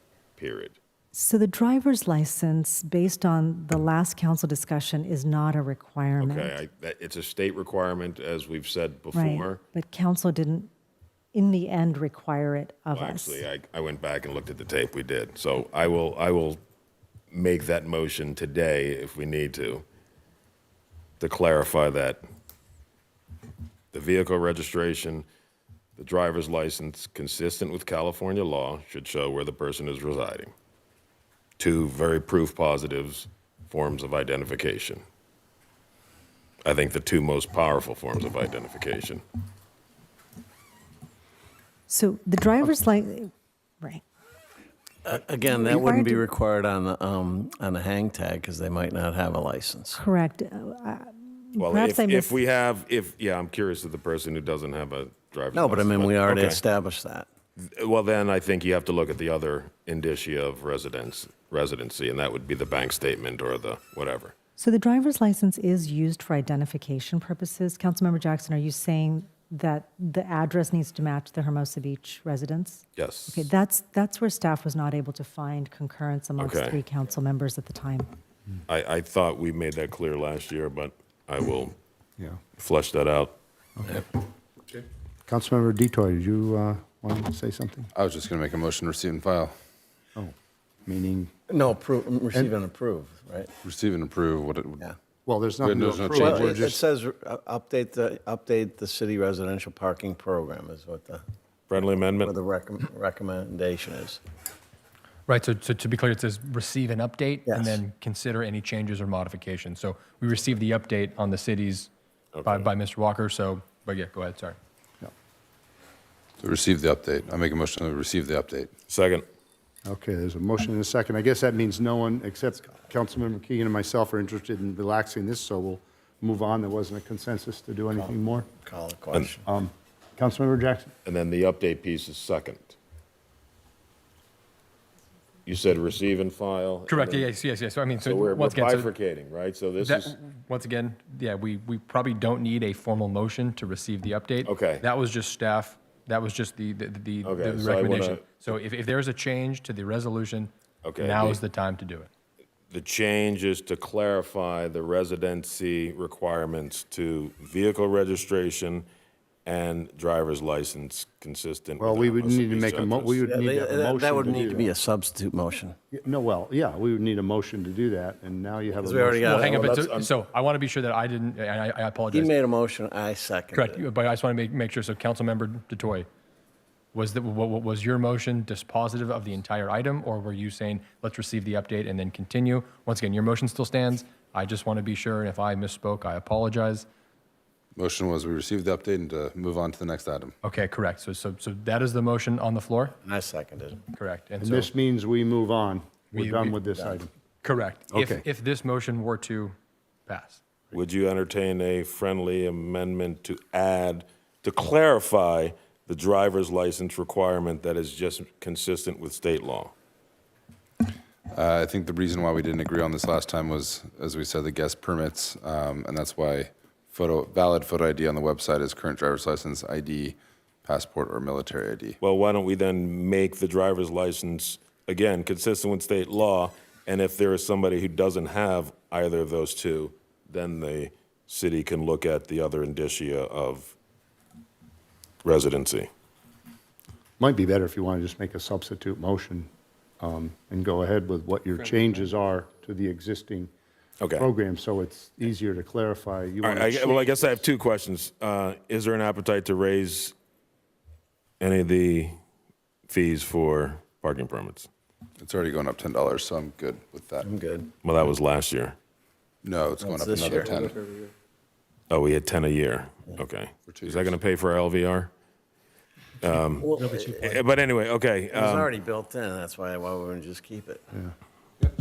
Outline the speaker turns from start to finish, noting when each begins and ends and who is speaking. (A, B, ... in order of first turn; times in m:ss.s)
0:00.4-0:00.8 A
0:01.1-0:06.6 B
0:06.2-0:09.6 A
0:09.1-0:10.7 B
0:11.3-0:13.4 B
0:12.9-0:16.6 A
0:17.3-0:19.8 A
0:21.2-0:22.2 A
0:23.9-0:25.2 A
0:26.0-0:30.5 A
0:31.6-0:35.0 A
0:36.6-0:39.2 A
0:41.9-0:44.0 B
0:45.0-0:50.0 C
0:45.5-0:46.2 B
0:49.9-0:52.4 B
0:51.6-0:56.6 A
0:55.5-0:57.3 C
0:57.6-1:04.3 A
1:04.6-1:18.1 B
1:13.0-1:13.5 A
1:16.4-1:16.8 A
1:18.7-1:21.8 A
1:22.6-1:23.4 A
1:25.3-1:27.9 D
1:27.9-1:29.5 E
1:30.8-1:31.3 D
1:31.5-1:33.5 C
1:33.6-1:34.8 E
1:35.2-1:36.8 D
1:35.6-1:36.6 E
1:36.2-1:41.2 C
1:41.7-1:42.3 A
1:42.2-1:44.2 C
1:45.3-1:51.9 F
1:47.4-1:47.8 C
1:52.3-1:52.7 A
1:52.4-1:54.6 F
1:56.4-1:58.7 E
1:58.9-1:59.2 A
1:59.8-2:08.5 D
2:07.9-2:09.4 C
2:09.4-2:10.9 D
2:11.0-2:12.8 A
2:15.4-2:17.3 A
2:16.9-2:18.9 F
2:18.0-2:20.2 A
2:19.8-2:32.1 F
2:24.4-2:24.8 A
2:27.2-2:28.4 A
2:30.8-2:31.4 A
2:32.7-2:38.8 A
2:39.4-2:43.2 A
2:41.8-2:44.8 D
2:43.2-2:45.7 C
2:45.9-2:49.7 D
2:48.8-2:49.6 C
2:49.2-2:52.3 F
2:49.6-2:50.1 A
2:52.1-2:53.8 C
2:53.5-2:56.1 F
2:56.9-3:06.9 F
3:07.7-3:10.3 E
3:10.4-3:13.0 F
3:13.0-3:13.9 C
3:13.9-3:14.6 F
3:14.4-3:17.1 D
3:16.1-3:16.6 F
3:17.4-3:19.5 F
3:17.9-3:18.2 D
3:20.0-3:20.4 F
3:20.7-3:29.7 A
3:31.3-3:42.0 E
3:42.0-3:53.7 A
3:55.2-3:55.9 A
3:57.2-4:03.5 D
4:04.0-4:04.3 A
4:04.2-4:07.4 D
4:06.4-4:10.1 A
4:11.4-4:12.2 A
4:12.9-4:14.7 A
4:15.2-4:17.3 E
4:17.2-4:17.7 C
4:17.8-4:18.8 A
4:19.4-4:20.8 E
4:19.8-4:20.5 C
4:21.9-4:25.1 A
4:23.7-4:24.2 E
4:26.2-4:28.7 A
4:26.6-4:27.3 C
4:28.3-4:30.8 C